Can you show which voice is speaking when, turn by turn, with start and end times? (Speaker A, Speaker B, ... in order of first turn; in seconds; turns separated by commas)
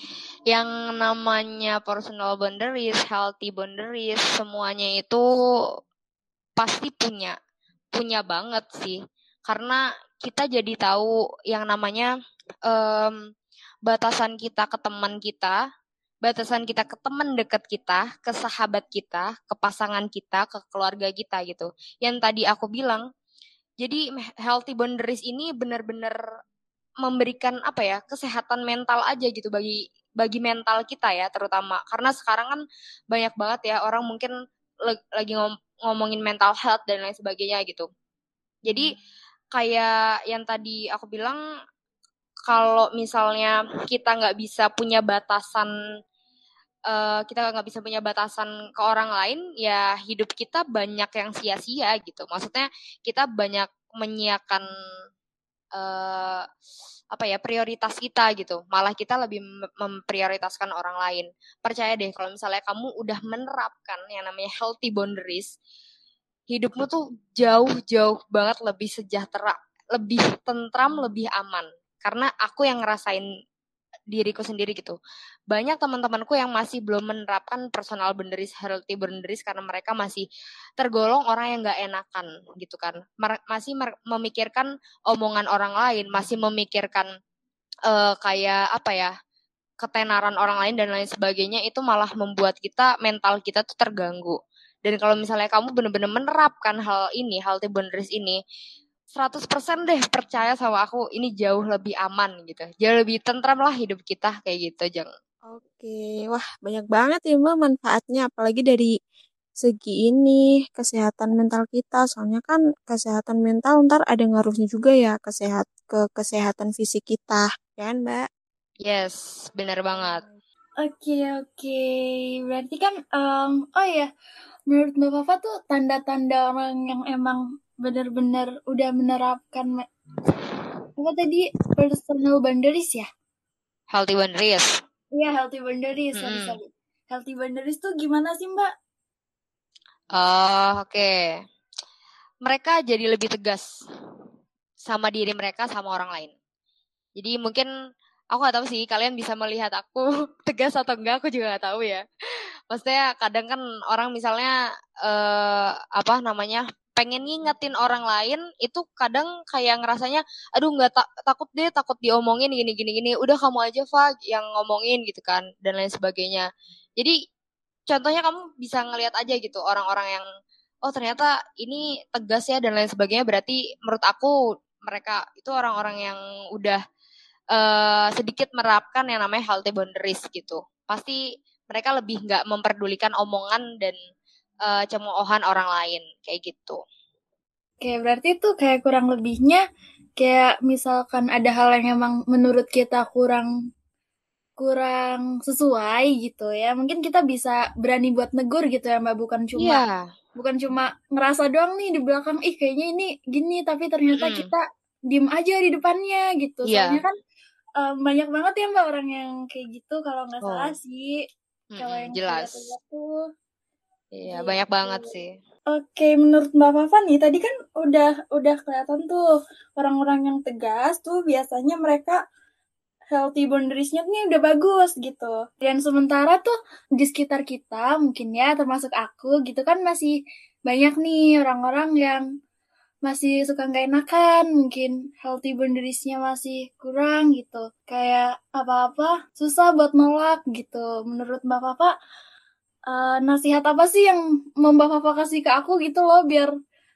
Speaker A: 0.5-5.2, Speaker A: 6.6-7.3, Speaker A: 7.9-12.1, Speaker A: 12.7-13.2, Speaker A: 13.9-15.6, Speaker A: 16.2-23.0, Speaker A: 23.8-26.2, Speaker A: 27.0-32.6, Speaker A: 33.1-34.3, Speaker A: 34.9-37.9, Speaker A: 39.5-41.4, Speaker A: 42.5-45.7, Speaker A: 46.9-54.6, Speaker A: 55.8-56.4, Speaker A: 57.1-65.5, Speaker A: 66.5-73.2, Speaker A: 74.1-75.0, Speaker A: 75.5-80.2, Speaker A: 80.8-87.1, Speaker A: 87.9-89.1, Speaker A: 89.8-98.4, Speaker A: 99.2-105.1, Speaker B: 105.5-108.9, Speaker B: 109.6-118.2, Speaker A: 118.8-120.2, Speaker B: 119.9-120.4, Speaker C: 120.8-124.1, Speaker C: 124.7-129.8, Speaker C: 131.0-133.1, Speaker A: 133.9-134.7, Speaker C: 135.2-138.7, Speaker A: 136.2-136.5, Speaker A: 140.2-141.2, Speaker A: 142.4-143.7, Speaker A: 144.9-146.3, Speaker A: 147.2-147.7, Speaker A: 148.3-152.0, Speaker A: 152.7-154.5, Speaker A: 155.1-166.4, Speaker A: 167.9-170.2, Speaker A: 170.9-174.3, Speaker A: 174.9-176.8, Speaker A: 177.5-181.2, Speaker A: 181.7-184.0, Speaker A: 184.7-186.8, Speaker C: 187.8-189.6, Speaker C: 190.2-193.5, Speaker C: 194.6-199.8, Speaker A: 199.6-200.1, Speaker C: 200.4-207.1, Speaker A: 204.2-204.5, Speaker A: 206.7-207.0, Speaker C: 207.8-211.2, Speaker A: 210.4-210.7, Speaker A: 211.7-212.7, Speaker C: 211.8-213.1, Speaker A: 214.2-215.4, Speaker C: 214.3-215.1, Speaker C: 215.7-222.2, Speaker C: 223.1-232.2, Speaker C: 233.1-241.9, Speaker C: 242.9-246.5